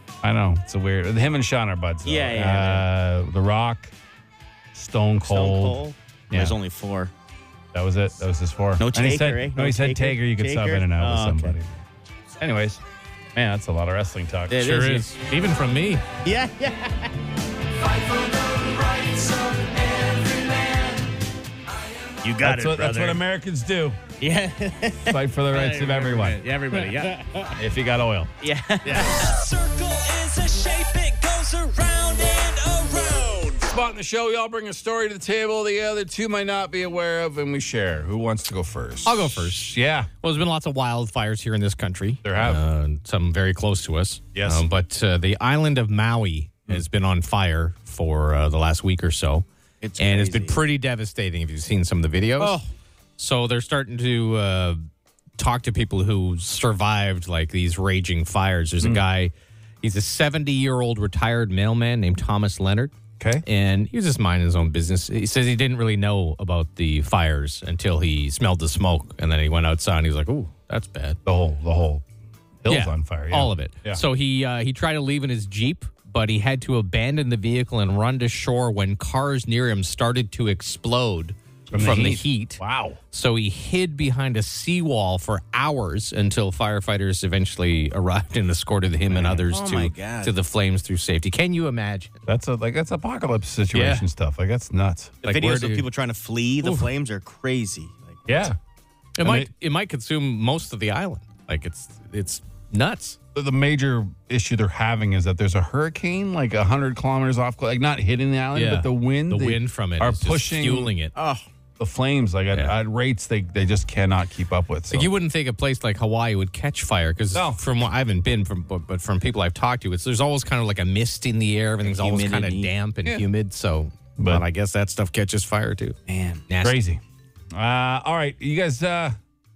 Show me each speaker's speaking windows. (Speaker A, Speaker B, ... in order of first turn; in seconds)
Speaker A: 0.2-3.9, 4.7-5.8, 6.3-6.6, 7.7-11.8, 12.4-12.8, 13.3-14.8, 22.4-24.0, 25.1-26.4, 27.5-28.3, 33.7-40.1, 42.2-42.6, 44.3-44.7, 63.2-63.5, 71.2-72.0, 72.6-74.0, 81.7-83.0, 92.3-95.2, 98.3-98.6, 99.2-99.5, 103.3-110.9, 111.8-115.1, 117.3-117.6, 124.2-124.4, 126.6-127.0, 127.5-129.2
Speaker B: 2.0-2.9, 5.2-7.1, 8.8-11.6, 14.5-15.1, 16.2-17.1, 22.2-23.2, 24.2-27.4, 28.4-29.3, 49.8-50.6, 89.1-90.3, 95.2-98.3, 111.2-111.5, 121.8-122.7, 126.1-126.5
Speaker C: 14.6-16.0, 39.0-49.5, 50.0-52.6, 53.2-54.8, 55.4-71.2, 72.7-82.6, 83.1-92.2, 93.7-94.1, 95.2-95.9, 96.6-96.9, 99.2-103.2, 108.5-111.1, 114.9-126.8
Speaker D: 17.8-21.2, 29.2-33.6